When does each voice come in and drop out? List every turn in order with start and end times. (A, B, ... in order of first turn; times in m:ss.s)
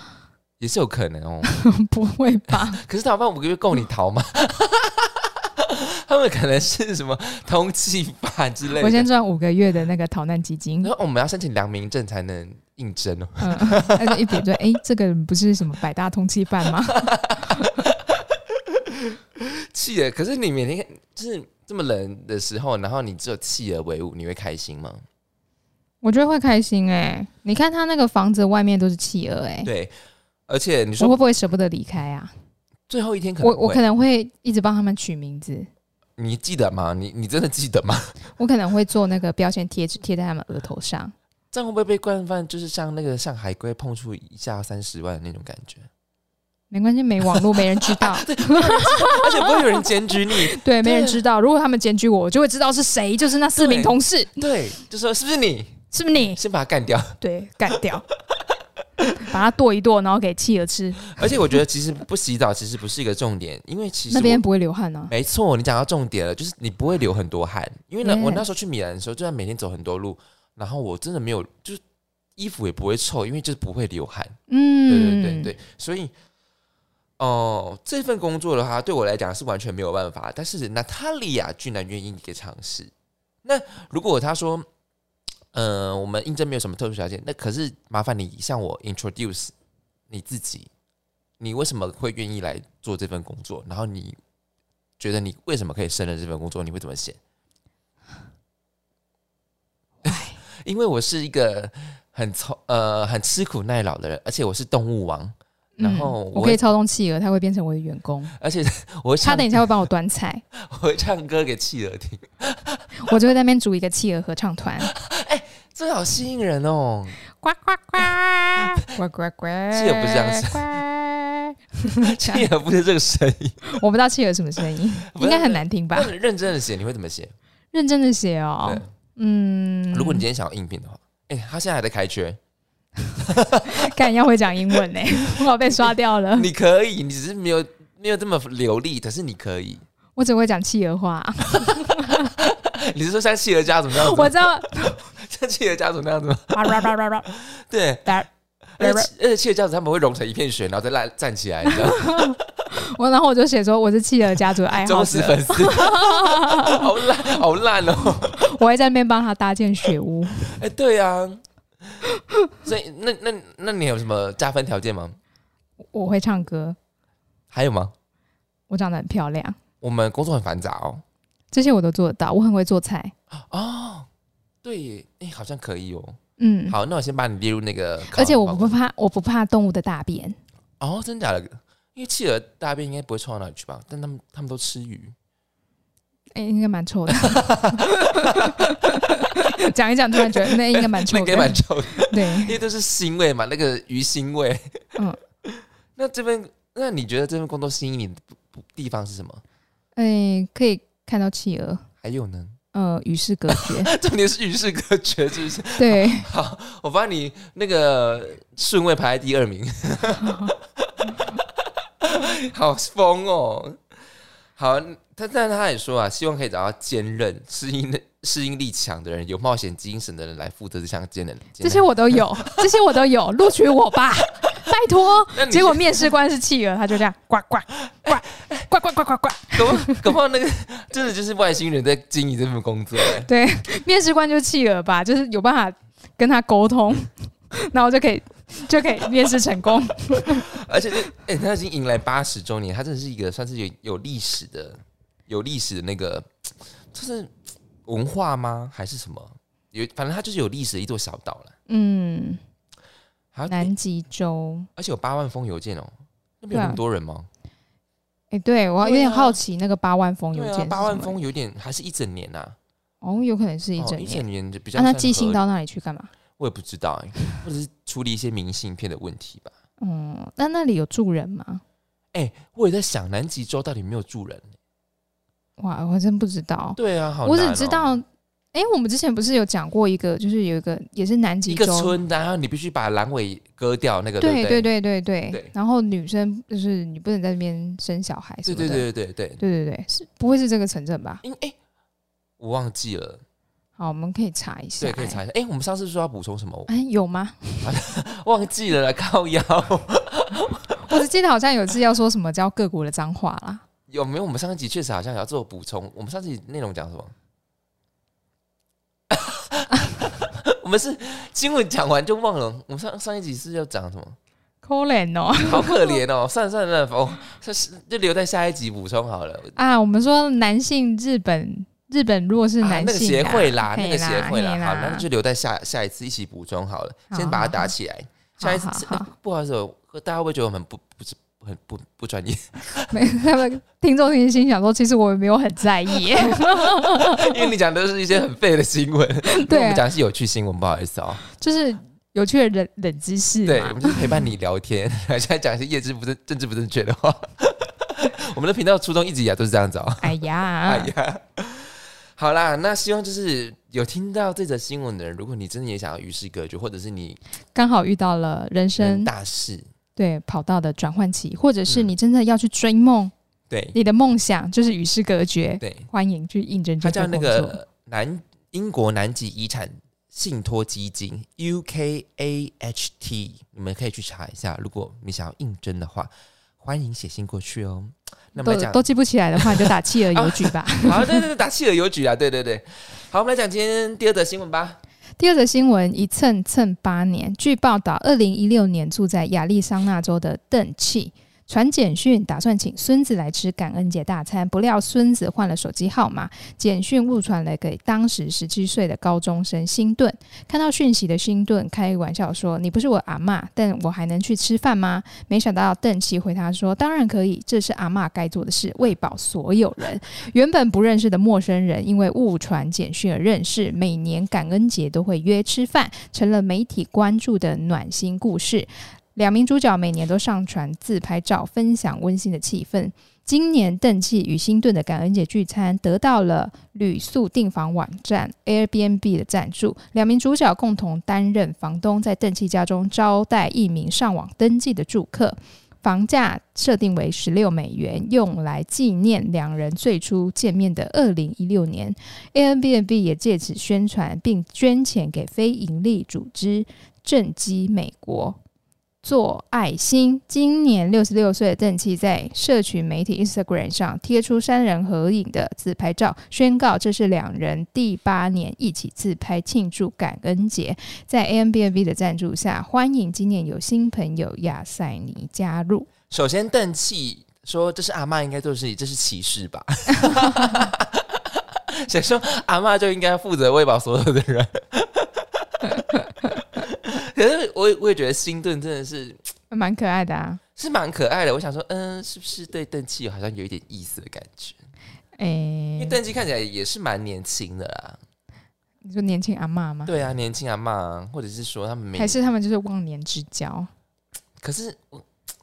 0:00.6-0:01.5 A
0:01.4-0:02.8 B
0:02.7-0:09.1 A
0:08.8-0:10.9 B
0:10.8-0:14.4 A
0:13.4-0:17.8 B
0:17.0-0:25.0 A
0:26.0-0:29.7 B
0:29.6-0:29.9 A
0:30.5-0:31.2 A
0:31.0-0:32.3 B
0:32.9-0:33.9 A
0:33.4-0:35.7 B
0:36.2-0:38.2 A
0:38.4-0:41.1 B
0:41.5-0:45.9 A
0:46.7-0:54.5 B
0:47.3-0:51.2 A
0:53.6-0:55.8 A
0:55.9-0:56.4 B
0:56.3-0:57.2 A
0:57.2-0:58.1 B
0:58.3-0:59.2 A
0:59.2-1:01.2 B
1:01.0-1:04.4 A
1:04.1-1:05.1 B
1:05.1-1:11.8 A
1:08.0-1:08.4 B
1:12.4-1:14.4 A
1:14.5-1:15.5 B
1:14.9-1:16.1 A
1:17.2-1:22.9 A
1:23.4-1:24.7 A
1:25.5-1:29.5 A
1:30.1-1:30.7 A
1:31.4-1:34.2 A
1:35.0-1:37.2 A
1:40.0-1:40.4 B
1:40.1-1:46.6 A
1:45.8-1:48.4 B
1:48.4-1:49.7 A
1:49.2-1:50.4 B
1:50.5-1:53.1 A
1:53.0-1:54.9 B
1:54.9-1:57.2 A
1:57.4-2:02.5 B
1:58.6-1:58.8 A
1:59.7-2:00.8 A
2:02.0-2:03.6 A
2:03.6-2:06.1 B
2:05.1-2:07.4 A
2:07.7-2:10.2 B
2:09.9-2:12.4 A
2:13.1-2:16.5 B
2:13.2-2:13.9 A
2:16.3-2:19.8 A
2:20.2-2:22.3 B
2:22.4-2:24.5 A
2:23.9-2:25.0 B
2:25.0-2:28.1 A
2:26.5-2:27.3 B
2:28.8-2:32.5 A
2:28.8-2:29.1 B
2:31.7-2:37.0 B
2:34.7-2:38.4 A
2:38.0-2:40.6 B
2:40.4-2:42.0 A
2:42.6-2:45.2 A
2:45.9-2:46.8 B
2:47.5-2:47.9 A
2:48.7-2:49.6 B
2:49.8-2:51.0 A
2:51.5-2:53.1 B
2:53.3-2:54.1 A
2:54.6-2:56.2 A
2:56.4-2:56.8 B
2:56.7-2:58.7 A
2:58.1-3:00.4 B
3:00.8-3:05.2 A
3:06.4-3:12.6 B
3:07.1-3:08.8 A
3:10.2-3:14.8 A
3:15.4-3:19.4 A
3:20.0-3:21.9 B
3:22.0-3:22.6 A
3:22.7-3:23.9 B
3:23.5-3:33.8 A
3:25.8-3:26.3 B
3:30.2-3:30.5 B
3:34.6-3:42.7 A
3:41.6-3:50.1 B
3:45.3-3:46.1 A
3:48.0-3:48.7 A
3:49.5-3:53.3 A
3:53.2-4:00.5 B
4:00.2-4:07.3 A
4:07.8-4:11.5 A
4:11.7-4:12.4 B
4:13.3-4:13.7 A
4:13.5-4:14.7 B
4:14.8-4:17.3 A
4:16.5-4:16.8 B
4:18.3-4:21.2 B
4:18.8-4:19.4 A
4:20.3-4:22.6 A
4:23.0-4:26.1 B
4:23.8-4:25.4 A
4:26.4-4:29.5 A
4:29.8-4:31.6 B
4:32.1-4:34.5 A
4:35.6-4:42.0 B
4:36.8-4:37.9 A
4:41.5-4:44.7 A
4:44.2-4:48.9 B
4:48.5-4:49.4 A
4:49.4-4:51.2 B
4:51.2-4:51.6 A
4:52.4-4:53.2 A
4:53.8-4:55.2 B
4:54.8-4:56.7 A
4:56.7-4:57.7 B
4:57.6-5:01.0 A
5:00.9-5:03.6 B
5:03.9-5:07.1 A
5:09.1-5:14.2 A
5:14.6-5:16.0 B
5:15.4-5:19.5 A
5:19.6-5:25.1 B
5:22.6-5:33.0 A
5:27.1-5:27.7 B
5:28.4-5:29.1 B
5:32.9-5:37.5 B
5:36.2-5:41.2 A
5:39.2-5:39.8 B
5:41.3-5:44.2 B
5:43.5-5:57.2 A
5:50.0-5:50.9 B
5:57.6-5:59.1 B
5:58.8-5:59.7 A
6:00.0-6:03.1 B
6:03.5-6:03.8 A
6:03.7-6:07.6 B
6:05.6-6:05.9 A
6:06.8-6:18.8 A
6:18.4-6:21.2 B
6:19.4-6:24.8 A
6:25.2-7:28.4 B
7:29.0-7:45.9 B
7:46.1-7:55.9 A
7:56.4-7:59.2 A
7:59.5-8:00.4 B
8:00.6-8:04.6 A
8:05.2-8:06.0 B
8:05.8-8:08.0 A
8:08.8-8:09.9 B
8:09.9-8:12.2 A
8:12.0-8:13.7 B
8:14.4-8:15.1 A